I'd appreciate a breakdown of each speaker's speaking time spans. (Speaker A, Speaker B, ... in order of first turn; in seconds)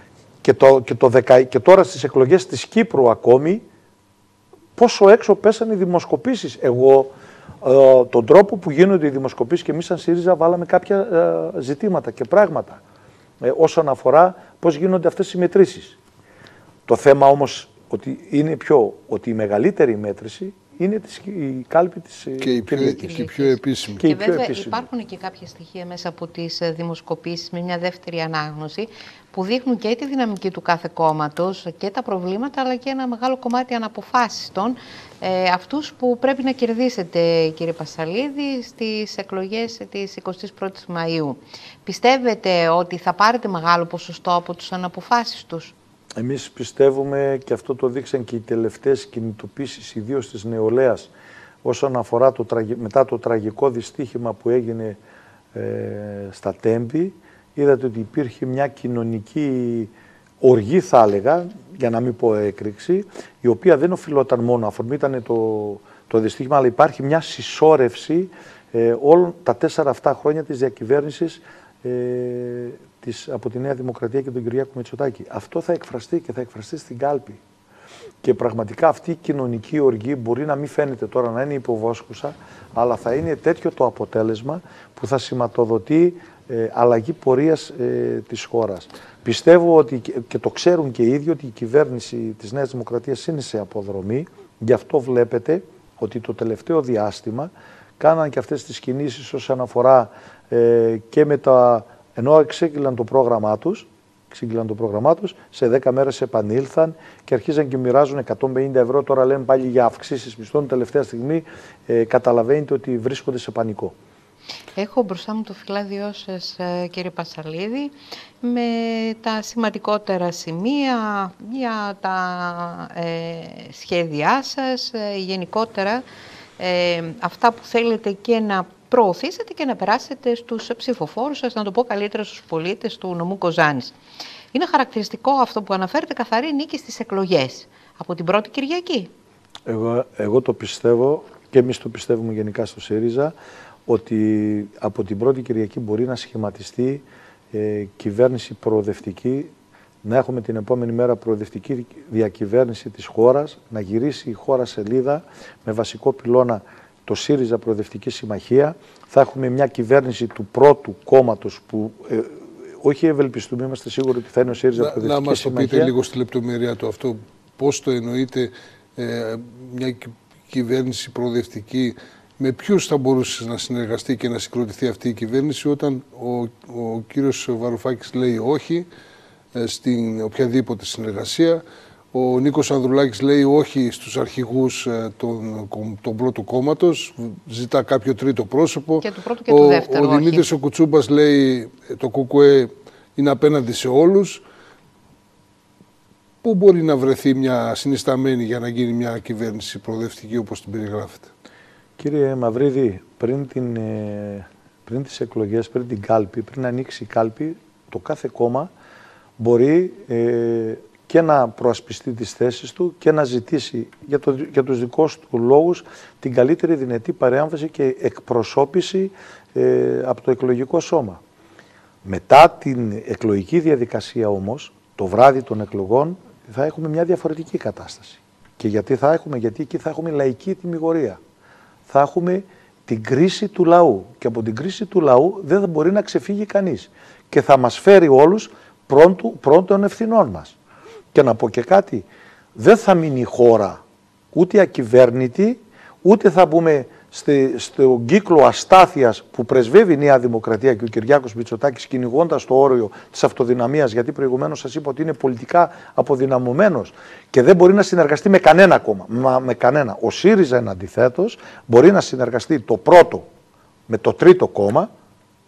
Speaker A: 0.4-3.6, 4.8-12.8, 13.4-16.0, 16.9-23.3, 24.0-24.9, 46.2-51.1, 51.6-55.0, 55.5-77.4, 78.2-114.0, 139.7-143.3, 143.9-149.5, 150.0-165.9, 202.0-208.7, 209.4-221.2, 222.0-231.2, 231.9-240.6, 241.1-243.8, 244.3-263.3, 263.9-264.9
Speaker B: 22.4-24.0, 164.8-178.9, 179.5-181.6, 182.1-194.4, 196.4-201.3
Speaker C: 23.0-45.7, 114.8-126.0, 126.6-133.9, 134.5-139.1, 189.0-190.5